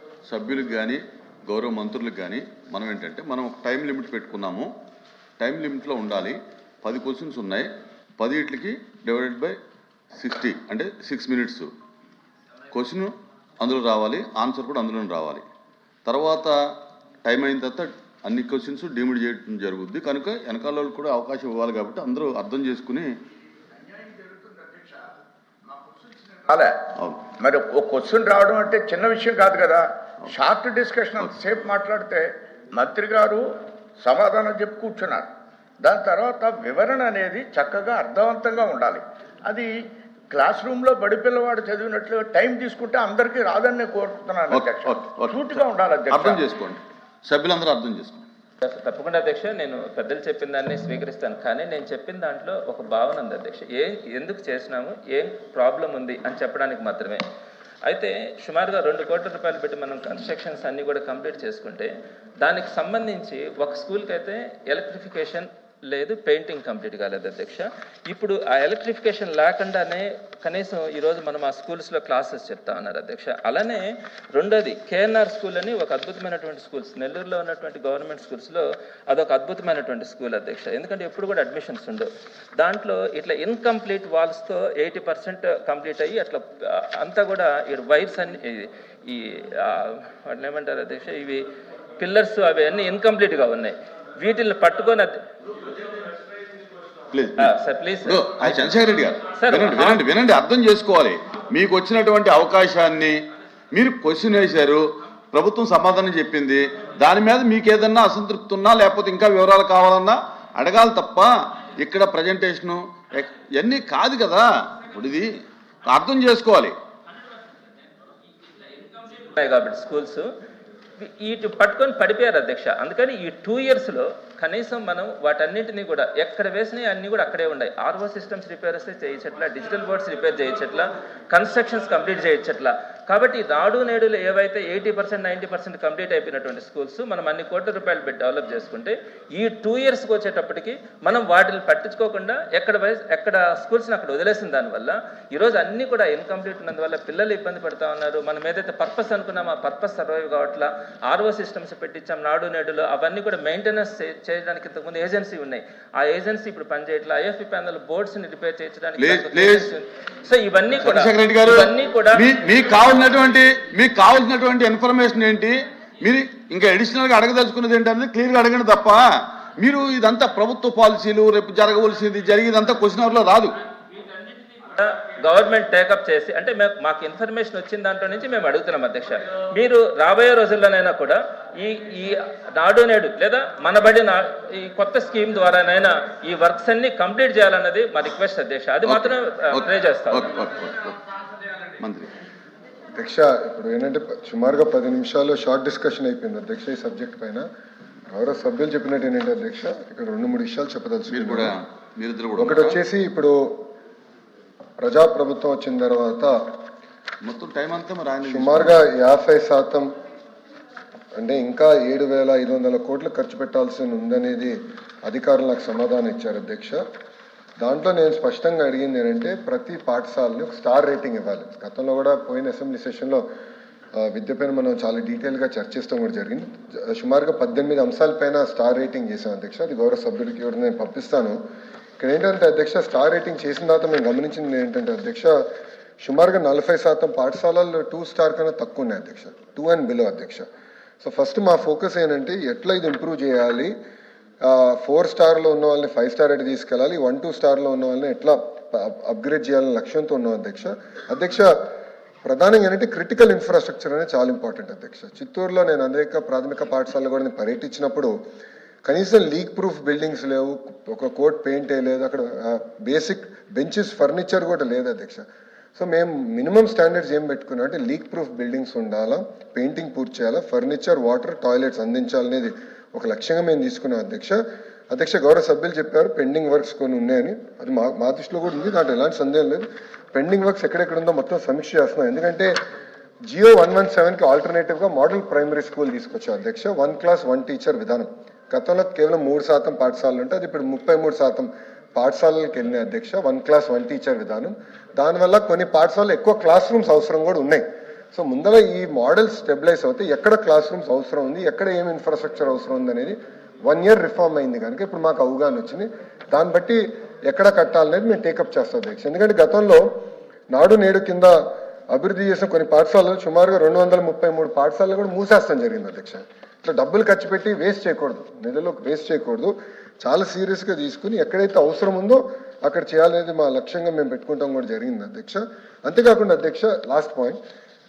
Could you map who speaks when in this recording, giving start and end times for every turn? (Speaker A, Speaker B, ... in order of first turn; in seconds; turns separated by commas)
Speaker A: 0.3-4.7, Speaker A: 5.4-7.7, Speaker A: 8.2-9.6, Speaker A: 10.2-11.7, Speaker A: 12.7-15.4, Speaker A: 16.1-16.5, Speaker A: 17.2-23.1, Speaker B: 24.0-25.0, Speaker B: 25.7-26.8, Speaker A: 27.0-27.3, Speaker B: 27.4-46.4, Speaker A: 44.5-48.2, Speaker C: 48.6-57.2, Speaker C: 57.9-91.4, Speaker C: 92.0-95.1, Speaker A: 97.1-97.5, Speaker C: 97.4-98.7, Speaker A: 98.1-103.2, Speaker C: 99.3-100.0, Speaker A: 103.7-104.8, Speaker A: 105.3-111.3, Speaker A: 111.8-115.3, Speaker A: 115.9-116.8, Speaker C: 119.1-120.3, Speaker C: 121.0-162.3, Speaker A: 159.0-159.7, Speaker A: 160.8-169.0, Speaker A: 169.6-173.5, Speaker C: 174.7-190.3, Speaker A: 189.6-191.0, Speaker A: 191.8-192.1, Speaker D: 193.0-197.5, Speaker D: 198.1-201.6, Speaker A: 201.1-202.8, Speaker D: 202.4-203.7, Speaker D: 204.8-206.4, Speaker A: 207.2-208.8, Speaker D: 208.2-209.9, Speaker D: 211.2-216.8, Speaker D: 217.6-223.2, Speaker D: 224.0-231.4, Speaker D: 232.0-235.4, Speaker D: 236.0-240.4, Speaker D: 241.0-243.7, Speaker D: 244.4-251.5, Speaker D: 252.2-258.1, Speaker D: 258.9-265.2, Speaker D: 265.8-274.4, Speaker D: 274.9-282.6, Speaker D: 283.3-309.9, Speaker D: 310.5-327.4